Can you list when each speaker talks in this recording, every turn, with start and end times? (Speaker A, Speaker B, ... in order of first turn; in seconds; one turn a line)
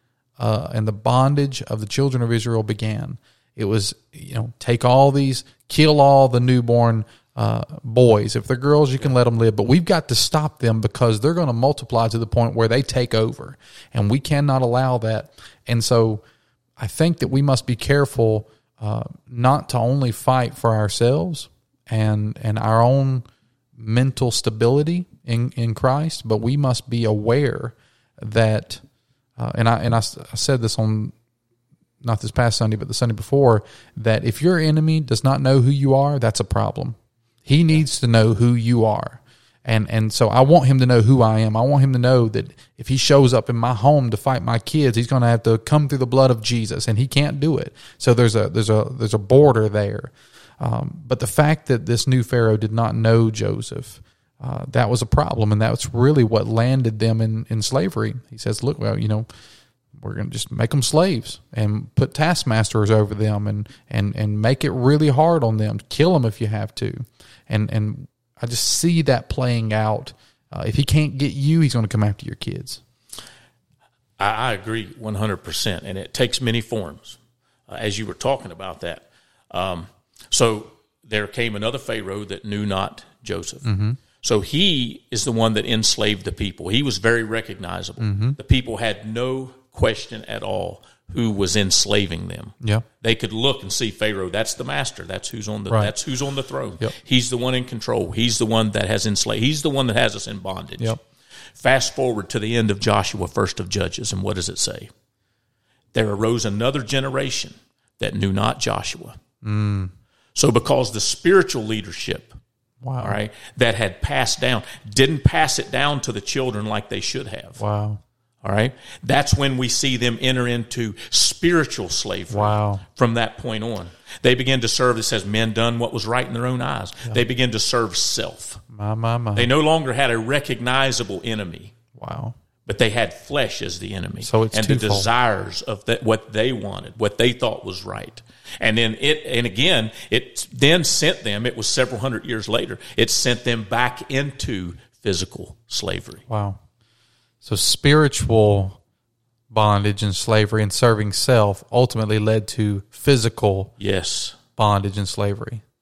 Speaker A: 0.4-16.2
Speaker A: 16.8-23.2
Speaker A: 23.8-28.8
Speaker A: 29.4-31.1
Speaker A: 32.0-59.3
Speaker A: 59.9-72.8
Speaker B: 74.2-101.0
Speaker A: 83.6-84.0
Speaker A: 88.0-88.4
Speaker B: 101.6-104.9
Speaker B: 105.9-109.2
Speaker A: 109.4-109.9
Speaker B: 110.3-112.4
Speaker A: 112.8-113.2
Speaker B: 113.0-117.6
Speaker A: 117.6-118.0
Speaker B: 118.4-128.6
Speaker A: 122.3-122.8
Speaker A: 128.7-129.5
Speaker B: 129.3-131.7
Speaker A: 131.9-132.3
Speaker B: 132.7-146.2
Speaker A: 134.2-135.1
Speaker A: 146.3-146.6
Speaker A: 147.4-148.8
Speaker A: 149.5-153.7
Speaker B: 153.8-154.4
Speaker A: 154.6-155.6